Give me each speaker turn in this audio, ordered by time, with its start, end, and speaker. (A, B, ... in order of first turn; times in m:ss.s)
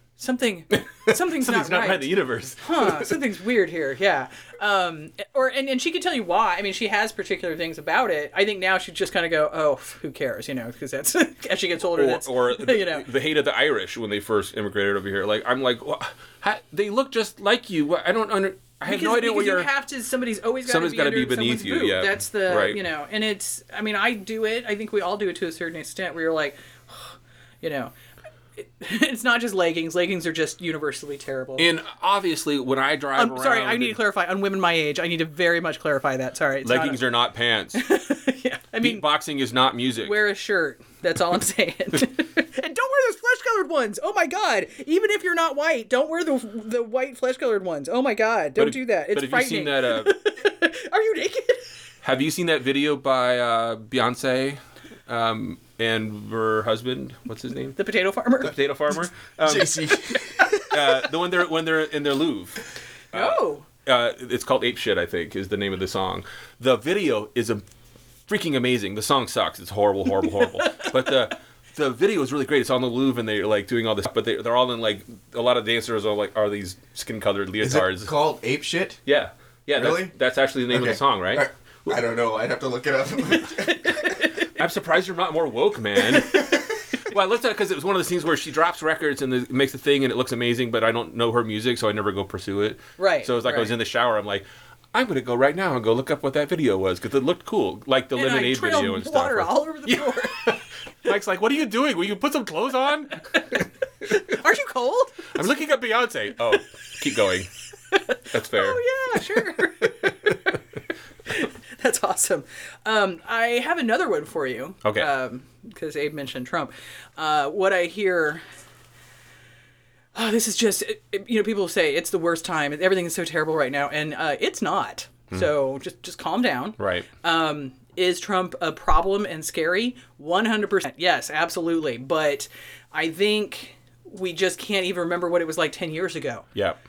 0:00.2-0:13.1 A
0:01.0-0:03.2 B
0:11.9-0:19.7 B
0:18.9-0:27.9 A
0:20.7-0:22.8 B
0:28.6-0:31.7 A
0:31.6-0:34.0 B
0:33.2-0:37.0 A
0:36.6-0:37.8 B
0:37.8-0:39.0 A
0:38.8-0:40.2 B
0:40.0-0:51.7 A
0:48.6-0:50.2 B
0:52.0-0:57.8 B
0:57.8-0:58.6 A
0:58.4-0:59.9 B
0:59.4-1:01.0 C
1:00.6-1:02.6 B
1:03.1-1:07.6 B
1:03.1-1:03.7 A
1:08.3-1:18.1 B
1:17.6-1:19.0 C
1:19.1-1:22.0 B
1:19.8-1:20.1 C
1:20.7-1:24.1 C
1:23.6-1:24.5 A
1:24.6-1:43.4 B
1:26.3-1:26.6 C
1:33.0-1:33.7 A
1:38.1-1:40.6 A
1:44.0-1:45.4 A
1:45.3-1:47.5 B
1:47.9-1:50.6 A
1:48.3-1:48.8 B
1:49.5-1:50.4 B
1:51.3-1:58.4 A
1:54.8-1:55.1 B
2:00.2-2:16.5 A
2:06.8-2:07.1 B